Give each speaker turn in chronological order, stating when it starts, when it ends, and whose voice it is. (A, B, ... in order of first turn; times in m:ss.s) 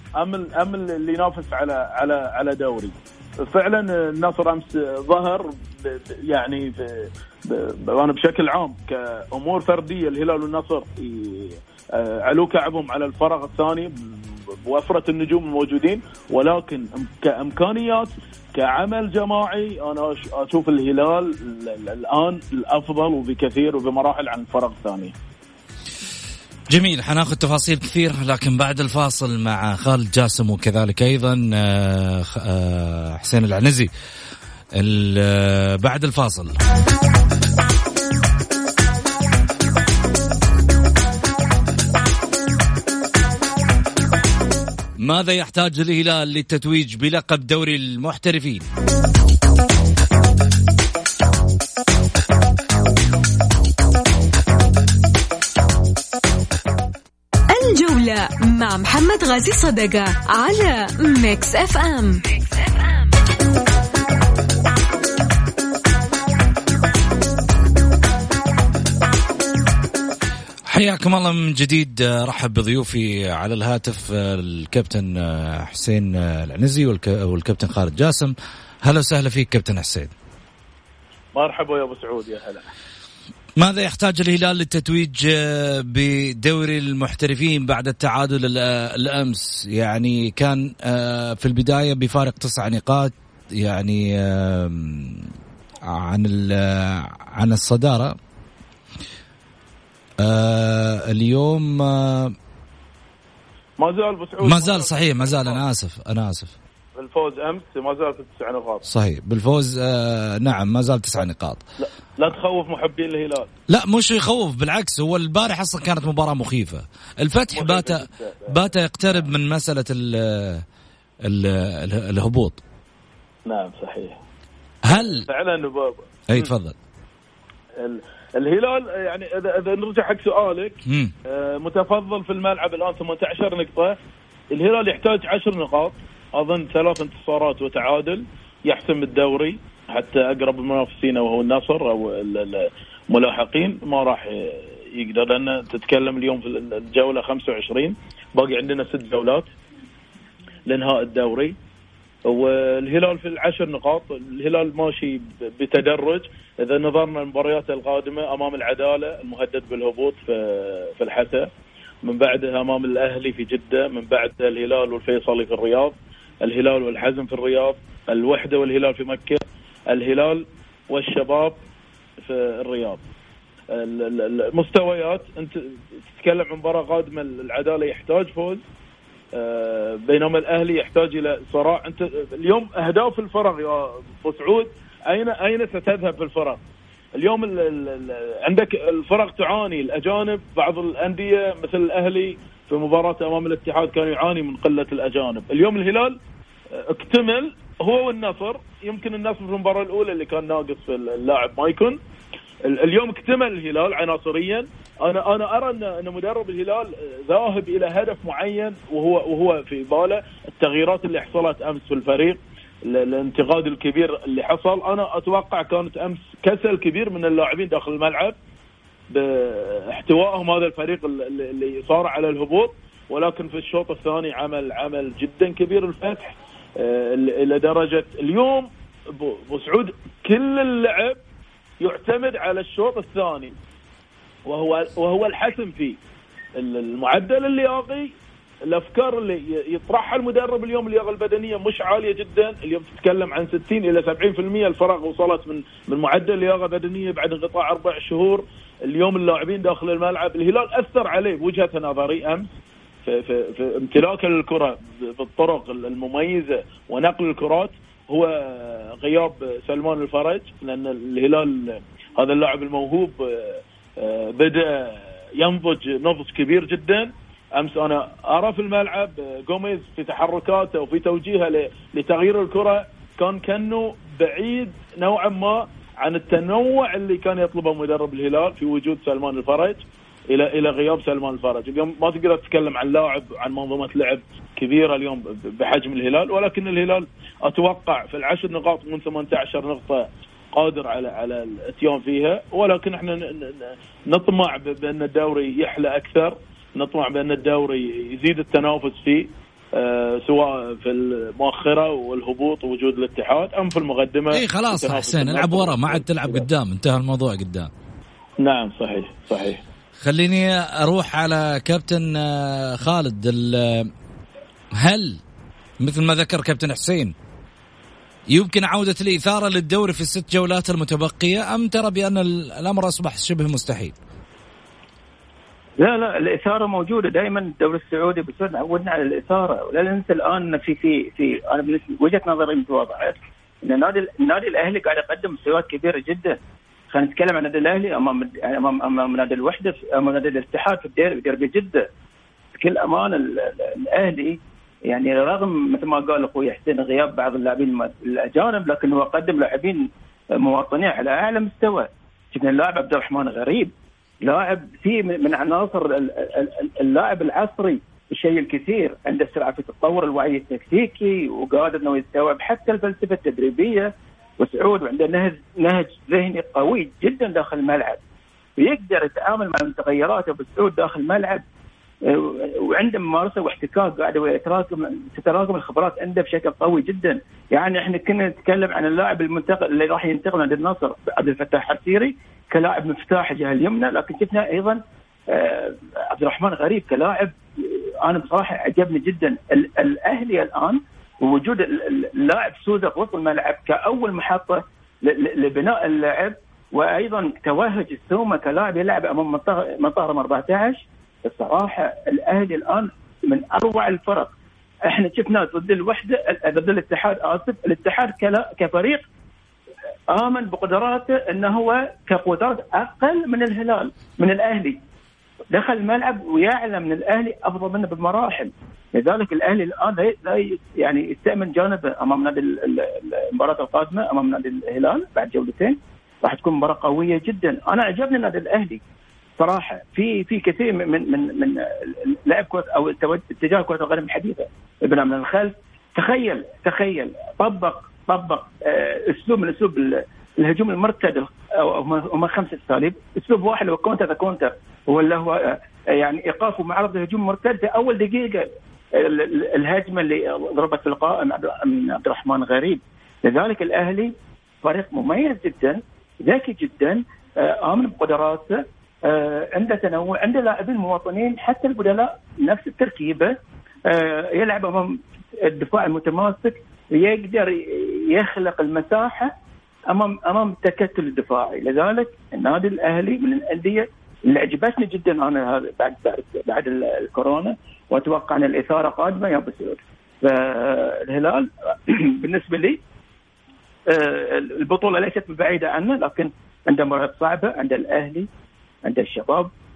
0:00.2-0:13.9 A
0:14.7-0:25.2 A
0:26.7-0:33.9 B
0:34.8-0:36.6 B
0:45.0-0:48.7 B
0:57.5-1:02.4 C
1:10.7-1:20.1 B
1:21.3-1:22.7 A
1:23.6-1:35.3 B
1:35.9-1:38.2 B
1:40.2-1:42.4 B
1:43.8-1:45.6 A
1:44.4-1:46.6 B
1:47.0-1:48.8 A
1:48.9-1:51.6 B
1:51.8-1:53.5 A
1:53.7-2:00.6 B
1:57.5-1:59.2 A
2:01.2-2:02.6 B
2:03.5-2:04.2 A
2:04.8-2:05.3 B
2:04.9-2:06.5 A
2:06.3-2:06.8 B
2:07.8-2:14.0 A
2:10.9-2:11.1 B
2:14.5-2:29.5 A
2:30.7-2:31.6 A
2:32.3-2:41.5 A
2:42.0-2:51.6 A
2:52.2-2:53.0 A
2:53.7-2:58.6 A
2:59.3-3:06.6 A
3:07.2-3:16.2 A
3:16.7-3:22.0 A
3:22.6-3:38.4 A
3:39.1-3:51.2 A
3:51.8-3:53.5 A
3:54.5-3:56.0 A
3:56.6-3:58.1 A
3:58.7-4:12.5 A
4:13.1-5:06.4 A
5:04.3-5:07.7 B
5:08.4-5:09.6 A
5:10.0-5:13.9 B
5:14.8-5:15.2 B
5:15.8-5:17.1 B
5:18.3-5:24.0 B
5:25.8-5:36.4 D
5:36.9-5:41.8 D
5:42.6-5:44.4 D
5:44.9-5:49.9 D
5:50.4-5:53.7 D
5:54.2-6:08.0 D
6:08.6-6:11.4 D
6:12.1-6:24.8 D
6:25.3-6:44.3 D
6:44.9-6:49.0 D
6:50.1-6:54.8 D
6:55.5-7:08.8 D
7:09.4-7:28.4 D
7:29.0-7:38.5 D
7:39.1-7:43.3 D
7:43.9-7:44.9 D
7:45.4-7:49.3 D
7:49.9-8:02.8 D
8:03.9-8:08.3 D
8:08.8-8:09.5 D